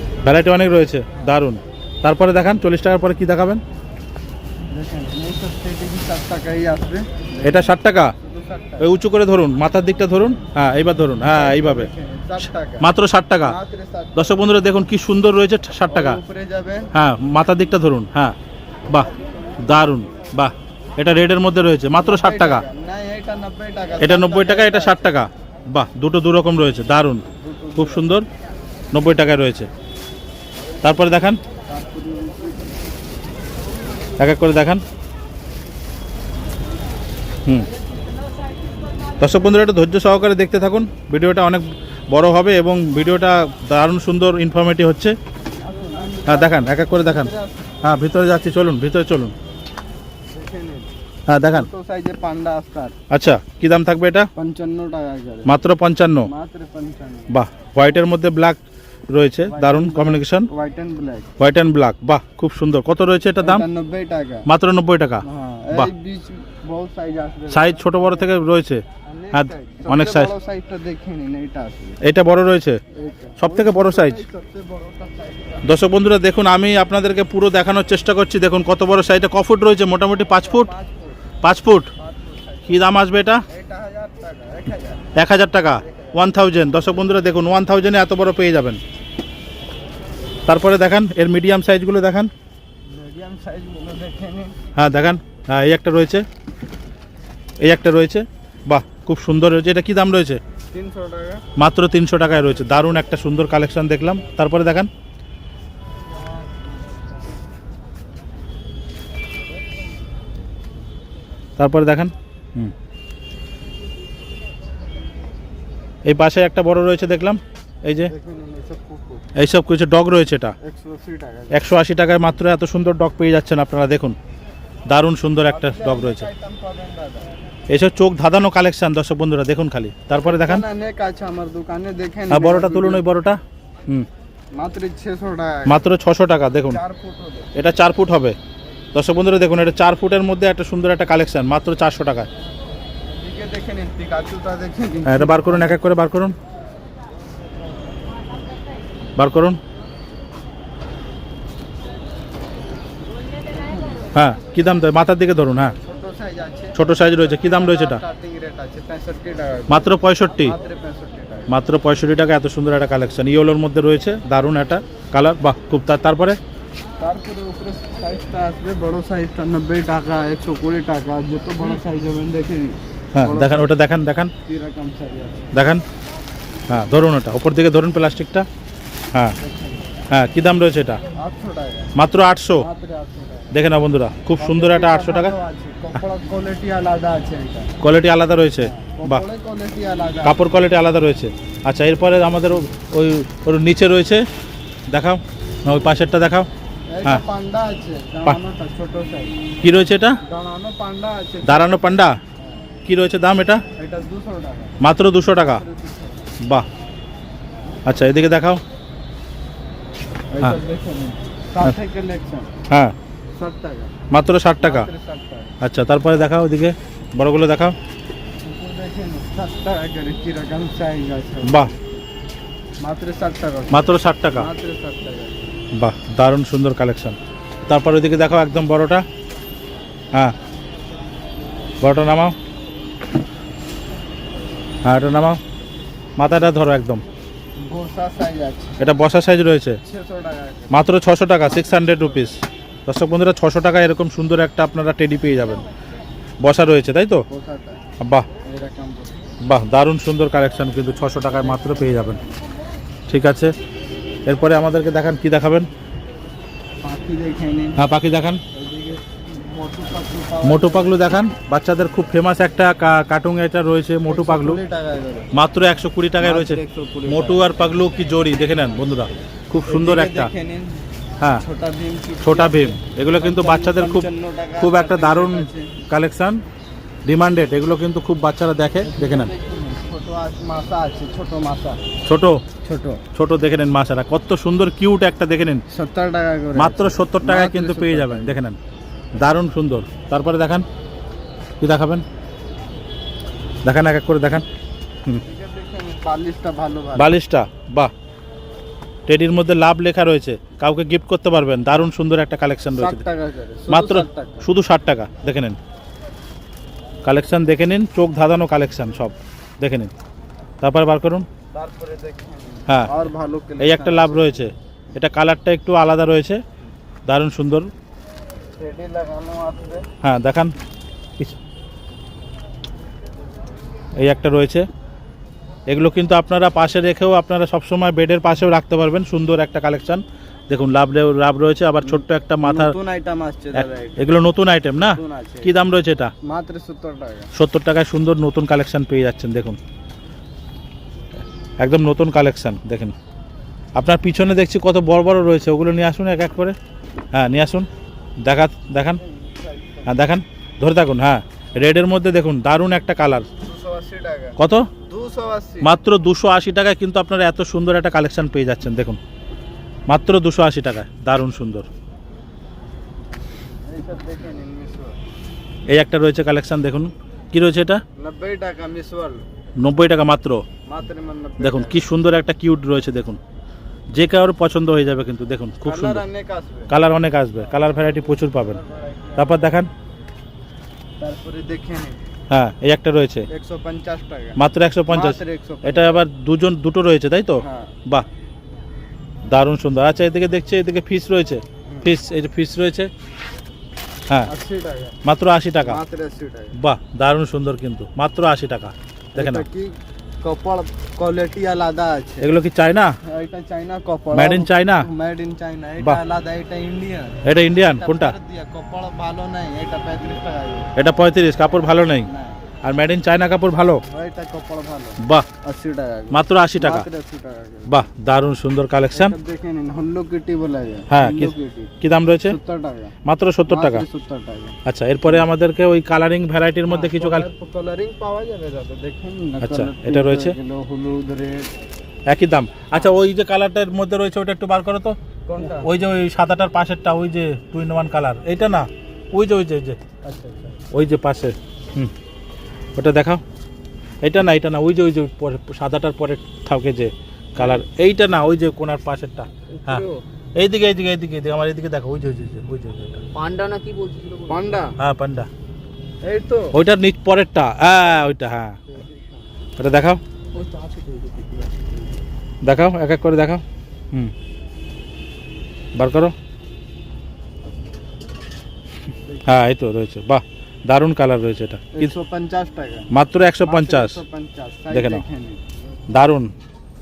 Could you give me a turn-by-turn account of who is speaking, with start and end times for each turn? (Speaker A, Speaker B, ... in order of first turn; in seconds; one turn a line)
Speaker A: 0.2-3.6
Speaker B: 4.7-8.9
Speaker A: 7.4-8.1
Speaker A: 8.8-11.9
Speaker B: 11.2-12.9
Speaker A: 12.8-13.6
Speaker B: 13.4-14.4
Speaker A: 14.1-16.2
Speaker B: 15.9-16.9
Speaker A: 16.9-18.3
Speaker A: 19.6-22.6
Speaker B: 22.0-25.1
Speaker A: 24.0-27.2
Speaker B: 27.3-28.1
Speaker A: 27.8-28.2
Speaker A: 28.9-29.7
Speaker A: 30.8-31.4
Speaker B: 31.7-33.0
Speaker A: 34.2-34.8
Speaker A: 39.2-45.1
Speaker B: 45.6-47.7
Speaker A: 46.2-47.3
Speaker A: 47.8-49.3
Speaker B: 50.3-50.9
Speaker A: 51.3-51.7
Speaker B: 51.5-53.0
Speaker A: 53.1-54.3
Speaker B: 54.4-55.5
Speaker A: 55.4-56.3
Speaker B: 56.2-57.3
Speaker A: 57.3-60.5
Speaker B: 59.4-61.3
Speaker A: 61.4-63.6
Speaker B: 63.4-64.5
Speaker A: 64.5-65.9
Speaker B: 65.2-68.3
Speaker A: 67.5-70.3
Speaker B: 69.0-72.0
Speaker A: 72.0-72.8
Speaker B: 72.9-75.8
Speaker A: 73.4-74.2
Speaker A: 75.6-80.7
Speaker B: 80.3-81.2
Speaker A: 81.4-81.9
Speaker B: 82.0-82.9
Speaker A: 82.7-83.4
Speaker B: 83.5-85.1
Speaker A: 85.1-88.8
Speaker B: 85.8-86.3
Speaker A: 90.5-92.3
Speaker B: 92.8-94.5
Speaker A: 94.8-96.2
Speaker A: 97.6-100.4
Speaker B: 100.7-101.4
Speaker A: 101.5-104.9
Speaker A: 111.6-112.7
Speaker A: 116.0-118.1
Speaker B: 118.0-119.2
Speaker A: 119.3-120.5
Speaker B: 120.6-121.6
Speaker A: 121.5-124.2
Speaker A: 124.9-126.3
Speaker B: 125.4-127.3
Speaker A: 127.7-130.6
Speaker B: 130.2-133.0
Speaker A: 132.3-134.1
Speaker B: 134.5-135.9
Speaker A: 135.7-136.8
Speaker B: 136.6-137.5
Speaker A: 137.5-138.4
Speaker A: 138.9-142.3
Speaker B: 143.1-145.8
Speaker A: 145.0-146.3
Speaker A: 149.2-149.6
Speaker B: 153.6-154.1
Speaker A: 154.1-155.8
Speaker B: 155.8-161.5
Speaker A: 156.7-158.0
Speaker A: 159.7-160.5
Speaker A: 161.5-166.4
Speaker B: 167.0-173.7
Speaker A: 173.2-174.3
Speaker B: 174.4-175.5
Speaker A: 175.5-175.8
Speaker A: 176.7-178.5
Speaker B: 179.4-179.8
Speaker A: 180.1-181.0
Speaker B: 181.1-181.9
Speaker A: 181.9-182.7
Speaker B: 182.5-183.6
Speaker A: 183.5-185.3
Speaker B: 184.4-187.8
Speaker A: 187.8-189.2
Speaker B: 188.6-190.4
Speaker A: 190.2-194.2
Speaker A: 194.9-196.5
Speaker B: 196.9-199.3
Speaker A: 199.6-200.2
Speaker B: 200.2-202.7
Speaker A: 201.4-202.2
Speaker A: 202.8-203.6
Speaker B: 203.8-206.3
Speaker A: 204.8-205.6
Speaker A: 207.8-208.6
Speaker B: 210.3-212.5
Speaker B: 213.3-213.9
Speaker A: 214.1-214.9
Speaker B: 214.6-215.5
Speaker A: 215.6-217.7
Speaker B: 218.4-222.0
Speaker A: 221.4-221.7
Speaker B: 222.8-225.6
Speaker A: 223.7-224.5
Speaker A: 225.7-229.0
Speaker A: 231.8-232.3
Speaker A: 234.8-235.4
Speaker A: 236.2-237.0
Speaker B: 237.6-238.8
Speaker A: 238.8-239.8
Speaker B: 239.8-240.8
Speaker A: 240.7-245.6
Speaker B: 241.4-242.4
Speaker A: 246.4-247.2
Speaker B: 247.3-247.8
Speaker A: 248.0-248.2
Speaker B: 248.4-249.3
Speaker A: 249.4-252.2
Speaker B: 251.3-252.3
Speaker A: 253.1-253.5
Speaker A: 254.2-255.7
Speaker B: 256.8-257.8
Speaker A: 257.8-258.4
Speaker B: 258.5-261.0
Speaker A: 260.4-264.6
Speaker B: 264.1-265.3
Speaker A: 265.3-270.3
Speaker B: 266.2-267.6
Speaker B: 269.7-270.8
Speaker B: 271.4-275.7
Speaker A: 272.2-276.4
Speaker A: 277.1-279.3
Speaker B: 278.8-281.8
Speaker A: 282.1-282.4
Speaker B: 282.6-283.0
Speaker A: 283.1-285.6
Speaker B: 285.7-288.4
Speaker A: 286.5-288.6
Speaker A: 289.1-290.6
Speaker A: 291.6-292.0
Speaker A: 293.6-294.4
Speaker B: 295.2-297.1
Speaker A: 296.9-297.9
Speaker A: 299.1-303.0
Speaker B: 302.7-304.5
Speaker A: 303.7-305.6
Speaker A: 307.0-309.9
Speaker A: 310.6-311.3
Speaker B: 311.5-314.5
Speaker A: 313.6-316.4
Speaker A: 317.1-317.7
Speaker B: 318.6-319.9
Speaker A: 320.0-320.5
Speaker A: 324.0-324.7
Speaker A: 325.7-332.7
Speaker B: 331.8-334.1
Speaker A: 333.5-336.1
Speaker B: 334.8-335.5
Speaker B: 336.2-337.3
Speaker A: 337.3-339.6
Speaker A: 341.6-342.9
Speaker A: 343.8-346.6
Speaker A: 347.1-347.7
Speaker A: 348.2-349.0
Speaker B: 348.9-350.0
Speaker A: 349.9-353.3
Speaker B: 353.4-355.7
Speaker A: 354.4-354.7
Speaker A: 355.6-359.0
Speaker A: 359.9-361.7
Speaker B: 363.7-365.0
Speaker A: 365.7-367.8
Speaker B: 367.9-369.2
Speaker A: 369.6-370.4
Speaker B: 370.6-371.8
Speaker A: 371.4-373.2
Speaker A: 373.9-376.0
Speaker B: 375.6-376.7
Speaker A: 376.7-378.6
Speaker B: 377.4-379.5
Speaker A: 379.1-379.7
Speaker B: 381.0-382.0
Speaker A: 382.3-383.3
Speaker B: 383.3-386.0
Speaker A: 384.4-388.1
Speaker B: 387.4-387.7
Speaker A: 389.3-392.9
Speaker B: 391.6-391.9
Speaker B: 394.2-395.0
Speaker A: 395.0-395.8
Speaker B: 395.6-396.5
Speaker A: 396.6-399.4
Speaker B: 399.1-402.3
Speaker A: 402.2-402.9
Speaker B: 403.0-407.2
Speaker A: 404.1-404.9
Speaker A: 407.2-408.1
Speaker B: 407.7-410.7
Speaker A: 410.8-412.1
Speaker B: 412.0-412.4
Speaker A: 412.6-413.8
Speaker B: 413.9-417.7
Speaker A: 415.0-415.3
Speaker A: 416.1-416.9
Speaker A: 417.7-419.1
Speaker B: 418.9-421.7
Speaker A: 420.9-422.4
Speaker B: 422.2-422.9
Speaker A: 423.0-423.8
Speaker B: 423.5-425.2
Speaker A: 424.6-427.3
Speaker B: 426.6-431.5
Speaker A: 429.4-430.4
Speaker A: 432.1-439.8
Speaker B: 435.2-435.7
Speaker B: 440.0-440.6
Speaker A: 440.7-441.9
Speaker A: 442.8-443.2
Speaker A: 444.0-449.8
Speaker B: 447.4-447.6
Speaker B: 449.6-450.0
Speaker A: 450.3-453.1
Speaker C: 453.1-454.4
Speaker B: 454.3-454.8
Speaker A: 454.8-455.3
Speaker B: 456.0-456.5
Speaker A: 456.5-458.6
Speaker B: 458.7-459.2
Speaker A: 459.6-460.0
Speaker C: 460.3-461.7
Speaker A: 462.4-464.1
Speaker A: 465.7-466.1
Speaker B: 469.1-469.4
Speaker A: 469.2-471.9
Speaker B: 471.7-472.9
Speaker A: 472.9-474.0
Speaker B: 473.4-475.4
Speaker A: 474.7-475.0
Speaker A: 475.9-476.3